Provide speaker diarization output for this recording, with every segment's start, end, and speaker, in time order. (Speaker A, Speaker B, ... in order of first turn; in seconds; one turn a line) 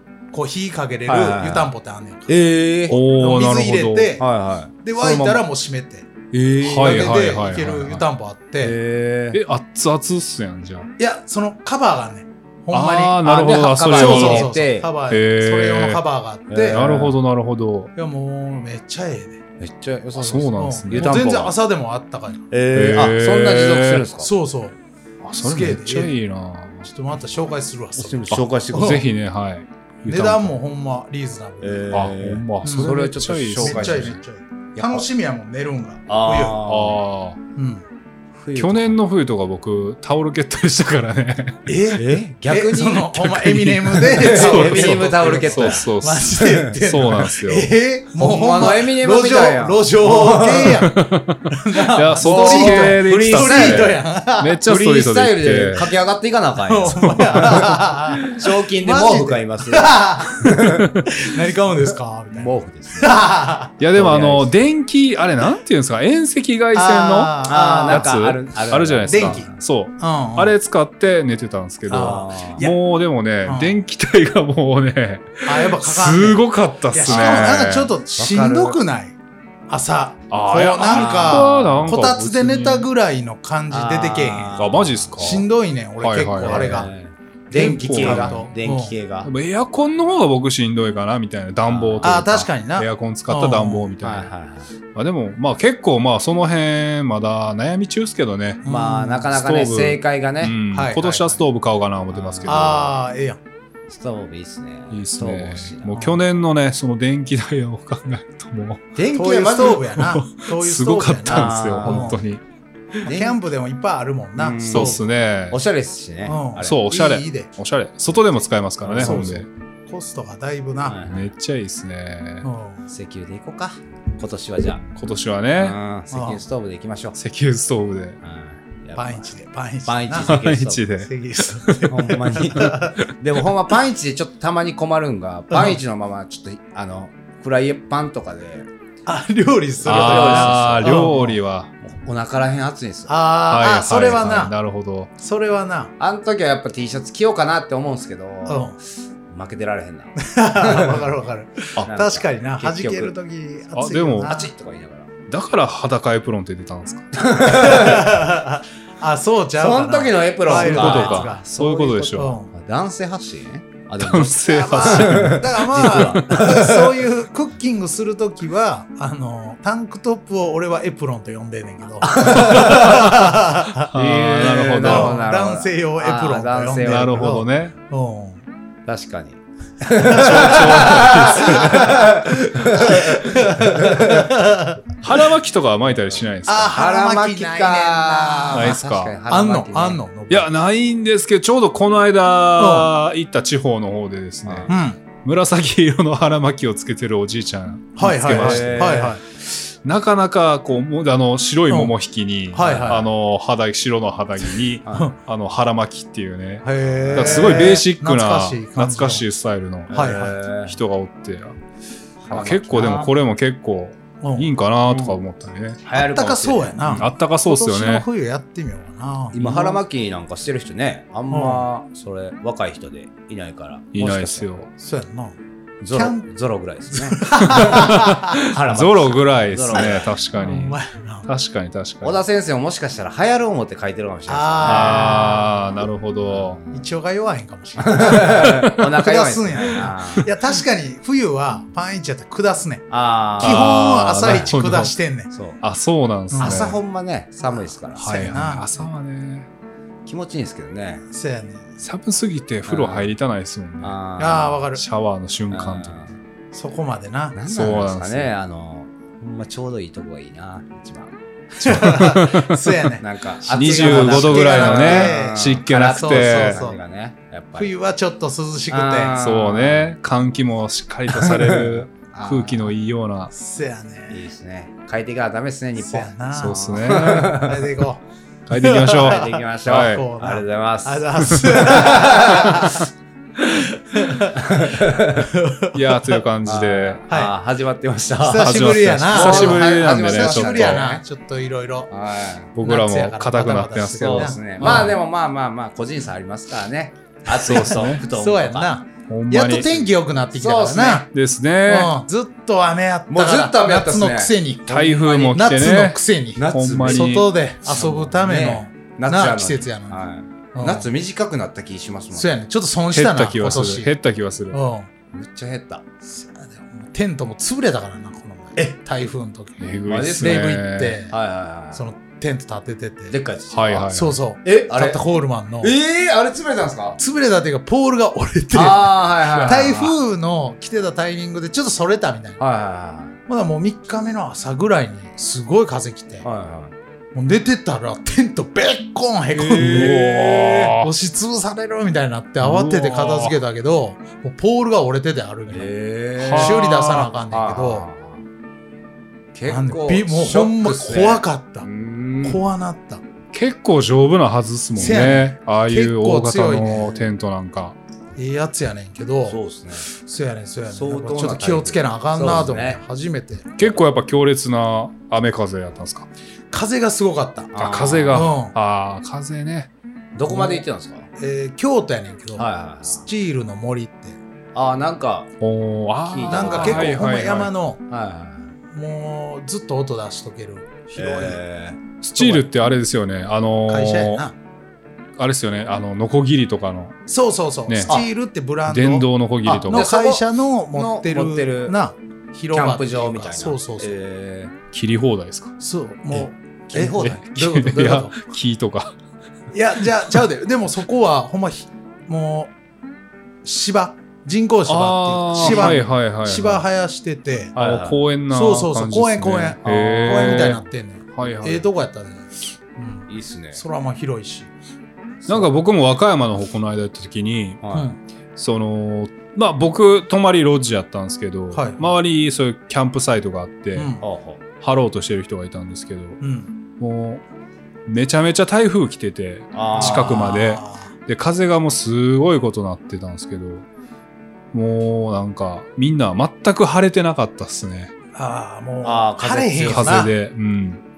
Speaker A: 0.3-2.3
Speaker B: 1.1-1.7
Speaker B: 2.3-3.0
Speaker A: 2.9-4.2
Speaker C: 2.9-4.2
Speaker B: 4.2-5.4
Speaker A: 4.8-6.1
Speaker B: 6.3-6.9
Speaker C: 6.6-8.1
Speaker A: 6.6-8.8
Speaker B: 8.6-9.4
Speaker C: 9.3-10.9
Speaker A: 11.0-16.9
Speaker C: 12.7-14.5
Speaker B: 13.3-14.9
Speaker C: 15.1-16.0
Speaker B: 16.5-17.1
Speaker C: 16.7-17.9
Speaker A: 18.0-19.4
Speaker B: 19.6-21.6
Speaker C: 20.2-21.2
Speaker A: 20.6-22.5
Speaker B: 22.5-24.3
Speaker C: 22.7-24.1
Speaker A: 24.2-24.8
Speaker C: 25.2-26.9
Speaker A: 25.4-26.1
Speaker A: 26.9-29.0
Speaker B: 28.0-29.0
Speaker C: 28.3-30.6
Speaker A: 30.1-32.1
Speaker B: 31.6-34.2
Speaker C: 31.9-34.2
Speaker A: 32.6-33.0
Speaker A: 33.6-36.7
Speaker B: 34.8-35.1
Speaker B: 36.1-37.0
Speaker C: 36.6-37.4
Speaker A: 37.6-37.8
Speaker B: 38.4-39.0
Speaker C: 38.6-41.6
Speaker A: 41.7-54.6
Speaker B: 41.9-43.3
Speaker C: 43.2-47.7
Speaker B: 43.9-46.8
Speaker B: 48.2-50.9
Speaker C: 50.6-55.9
Speaker B: 52.2-54.0
Speaker B: 54.6-60.9
Speaker A: 56.7-63.8
Speaker C: 57.4-57.6
Speaker C: 60.6-61.1
Speaker B: 62.3-63.2
Speaker C: 63.8-67.3
Speaker B: 63.9-64.5
Speaker A: 66.7-68.2
Speaker B: 67.5-69.6
Speaker C: 67.9-77.9
Speaker A: 69.1-70.5
Speaker A: 71.9-72.8
Speaker B: 72.0-72.6
Speaker A: 73.5-73.8
Speaker A: 75.4-79.2
Speaker B: 77.1-77.5
Speaker B: 78.2-78.8
Speaker A: 79.7-84.6
Speaker C: 80.3-82.9
Speaker B: 80.9-81.8
Speaker B: 83.7-85.2
Speaker C: 84.6-85.5
Speaker A: 85.2-86.9
Speaker C: 86.0-86.9
Speaker B: 86.4-89.3
Speaker A: 87.5-89.0
Speaker C: 87.5-88.5
Speaker C: 89.2-94.3
Speaker B: 91.7-92.2
Speaker A: 92.0-93.9
Speaker B: 94.0-94.7
Speaker C: 95.0-98.7
Speaker A: 98.6-99.3
Speaker B: 98.7-100.6
Speaker C: 99.3-102.9
Speaker A: 100.7-101.4
Speaker B: 102.1-102.6
Speaker A: 102.5-103.4
Speaker B: 103.9-106.0
Speaker C: 104.9-108.8
Speaker A: 105.9-106.2
Speaker B: 109.0-109.9
Speaker A: 109.1-112.2
Speaker C: 109.9-112.4
Speaker B: 111.3-112.2
Speaker B: 113.0-113.4
Speaker A: 113.1-115.0
Speaker B: 114.4-116.8
Speaker C: 114.7-115.6
Speaker A: 116.3-117.5
Speaker C: 116.6-119.5
Speaker B: 118.8-119.3
Speaker A: 119.0-121.0
Speaker B: 120.8-121.3
Speaker C: 121.0-122.5
Speaker A: 122.4-122.9
Speaker B: 122.9-124.8
Speaker C: 125.0-125.8
Speaker B: 125.6-127.2
Speaker A: 126.1-126.4
Speaker C: 127.2-128.2
Speaker B: 128.2-130.9
Speaker A: 129.0-130.4
Speaker C: 130.3-132.8
Speaker A: 131.0-133.0
Speaker B: 131.9-138.7
Speaker A: 135.5-135.8
Speaker A: 139.1-141.4
Speaker B: 139.8-141.1
Speaker C: 139.8-141.7
Speaker B: 141.8-143.2
Speaker A: 143.1-144.6
Speaker C: 143.5-145.1
Speaker A: 145.2-145.9
Speaker B: 146.0-148.7
Speaker A: 148.5-148.8
Speaker B: 149.3-151.0
Speaker A: 150.2-154.5
Speaker B: 151.8-153.2
Speaker C: 153.7-154.3
Speaker B: 154.2-155.1
Speaker C: 155.3-157.1
Speaker B: 157.2-158.2
Speaker A: 157.5-162.5
Speaker B: 159.6-166.9
Speaker C: 160.5-162.4
Speaker C: 164.0-166.7
Speaker A: 164.4-173.9
Speaker B: 172.0-173.2
Speaker C: 173.9-175.2
Speaker B: 173.9-177.2
Speaker A: 174.8-178.4
Speaker C: 176.8-177.7
Speaker B: 178.9-184.3
Speaker A: 180.0-182.1
Speaker C: 180.1-182.0
Speaker A: 182.7-184.8
Speaker C: 185.0-186.8
Speaker B: 185.9-186.2
Speaker A: 186.5-190.5
Speaker B: 186.7-190.0
Speaker C: 188.5-189.2
Speaker C: 190.3-211.6
Speaker A: 192.6-192.9
Speaker B: 194.4-194.7
Speaker A: 194.7-195.0
Speaker A: 198.0-199.2
Speaker B: 198.3-199.2
Speaker A: 202.5-203.1
Speaker B: 202.6-203.0
Speaker A: 206.6-209.3
Speaker B: 206.9-207.8
Speaker B: 209.9-210.8
Speaker A: 209.9-210.4
Speaker B: 212.2-213.1
Speaker C: 212.3-215.8
Speaker A: 214.2-214.5
Speaker B: 214.9-215.2
Speaker B: 215.8-217.1
Speaker A: 215.9-219.8
Speaker C: 216.9-218.1
Speaker B: 219.3-224.5
Speaker A: 221.3-221.7
Speaker C: 223.9-224.7
Speaker A: 224.8-225.4
Speaker B: 225.8-230.1
Speaker A: 225.9-226.2
Speaker A: 226.9-228.4
Speaker C: 227.4-232.2
Speaker A: 229.8-231.3
Speaker B: 232.0-235.3
Speaker A: 234.3-235.8
Speaker C: 234.6-236.6
Speaker B: 236.3-236.8
Speaker A: 236.7-242.9
Speaker B: 237.8-240.3
Speaker B: 242.9-243.7
Speaker A: 243.4-245.3
Speaker C: 243.4-244.9
Speaker B: 245.3-245.6
Speaker C: 245.6-246.8
Speaker A: 246.3-246.7
Speaker B: 246.4-248.3
Speaker A: 247.9-248.7
Speaker C: 248.0-249.5
Speaker B: 250.1-251.0
Speaker A: 251.1-251.7
Speaker C: 251.8-254.0
Speaker B: 252.7-253.1
Speaker B: 253.8-254.6
Speaker A: 254.2-254.8
Speaker C: 254.8-256.0
Speaker B: 255.5-256.2
Speaker A: 256.5-257.4
Speaker B: 257.4-262.0
Speaker C: 257.5-258.3
Speaker A: 261.6-266.8
Speaker C: 261.6-262.8
Speaker B: 263.0-267.7
Speaker C: 263.5-266.6
Speaker A: 267.6-269.2
Speaker B: 268.7-269.9
Speaker C: 269.2-273.3
Speaker B: 271.1-272.7
Speaker A: 273.3-274.2
Speaker B: 274.1-277.7
Speaker A: 275.8-282.9
Speaker C: 276.3-277.4
Speaker C: 278.5-280.1
Speaker B: 278.9-282.8
Speaker C: 281.3-281.6
Speaker A: 283.4-286.2
Speaker B: 284.4-285.3
Speaker C: 285.7-287.0
Speaker B: 286.4-291.0
Speaker A: 288.2-291.9
Speaker C: 288.4-290.9
Speaker B: 291.9-292.5
Speaker C: 292.6-295.0
Speaker A: 292.6-294.9
Speaker B: 294.0-298.7
Speaker C: 297.4-298.0
Speaker A: 297.4-301.1
Speaker C: 299.1-299.9
Speaker B: 300.3-301.1
Speaker C: 301.1-301.9
Speaker A: 301.7-310.0
Speaker B: 303.1-304.3
Speaker C: 304.7-307.3
Speaker B: 304.9-305.4
Speaker B: 306.4-312.3
Speaker A: 310.6-310.9
Speaker A: 312.1-313.9
Speaker C: 312.9-314.6
Speaker A: 314.5-314.9
Speaker B: 315.1-315.8
Speaker A: 316.1-321.1
Speaker C: 319.6-321.0
Speaker B: 319.9-320.5
Speaker B: 321.1-321.8
Speaker A: 321.7-323.1
Speaker B: 323.1-325.0
Speaker C: 323.5-324.2
Speaker A: 323.9-325.7
Speaker B: 325.6-327.0
Speaker A: 327.0-332.4
Speaker B: 328.5-329.9
Speaker C: 329.3-329.8
Speaker B: 332.4-333.1
Speaker A: 333.3-336.2
Speaker B: 336.2-336.7
Speaker A: 337.1-345.7
Speaker B: 339.3-340.1
Speaker C: 339.6-340.9
Speaker C: 342.4-343.4
Speaker B: 345.5-348.2
Speaker C: 346.2-346.7
Speaker A: 346.3-347.9
Speaker B: 349.3-352.4
Speaker A: 349.5-351.7
Speaker A: 352.2-353.0
Speaker C: 353.3-357.8
Speaker A: 354.8-357.1
Speaker A: 358.2-363.6
Speaker B: 359.2-359.9
Speaker B: 360.7-362.8
Speaker C: 363.6-366.1
Speaker A: 366.5-367.5
Speaker B: 367.5-368.3
Speaker C: 367.6-369.7
Speaker A: 368.1-368.5
Speaker B: 370.1-371.1
Speaker A: 370.3-370.6
Speaker A: 371.2-374.2
Speaker B: 372.4-373.0
Speaker B: 374.6-375.3
Speaker C: 375.4-377.5
Speaker B: 376.1-377.0
Speaker A: 376.3-377.8
Speaker B: 377.9-378.5
Speaker A: 378.7-381.4
Speaker B: 380.9-381.8
Speaker C: 382.0-384.2
Speaker A: 382.2-382.5
Speaker A: 383.7-384.3
Speaker C: 385.2-387.0
Speaker A: 387.1-389.1
Speaker C: 387.7-388.0
Speaker C: 388.7-389.9
Speaker B: 389.4-391.8
Speaker A: 389.7-393.9
Speaker B: 392.5-394.6
Speaker C: 394.7-395.5
Speaker A: 395.6-398.2
Speaker B: 396.7-397.8
Speaker C: 397.0-398.9
Speaker A: 399.5-402.5
Speaker A: 403.4-407.6
Speaker C: 404.7-406.6
Speaker B: 405.4-405.8
Speaker B: 407.6-408.0
Speaker C: 407.6-411.7
Speaker A: 408.3-414.5
Speaker B: 409.7-410.5
Speaker B: 413.1-413.6
Speaker C: 415.3-417.6
Speaker B: 417.6-417.9
Speaker A: 417.7-418.0
Speaker C: 418.4-423.9
Speaker A: 421.5-421.8
Speaker A: 423.8-424.0
Speaker B: 424.0-424.4
Speaker C: 424.6-426.2
Speaker A: 426.2-426.5
Speaker C: 426.8-427.2
Speaker C: 427.9-433.7
Speaker B: 429.5-430.4
Speaker A: 429.7-430.9
Speaker C: 434.5-437.9
Speaker A: 438.1-440.1
Speaker B: 438.8-440.1
Speaker C: 439.7-440.8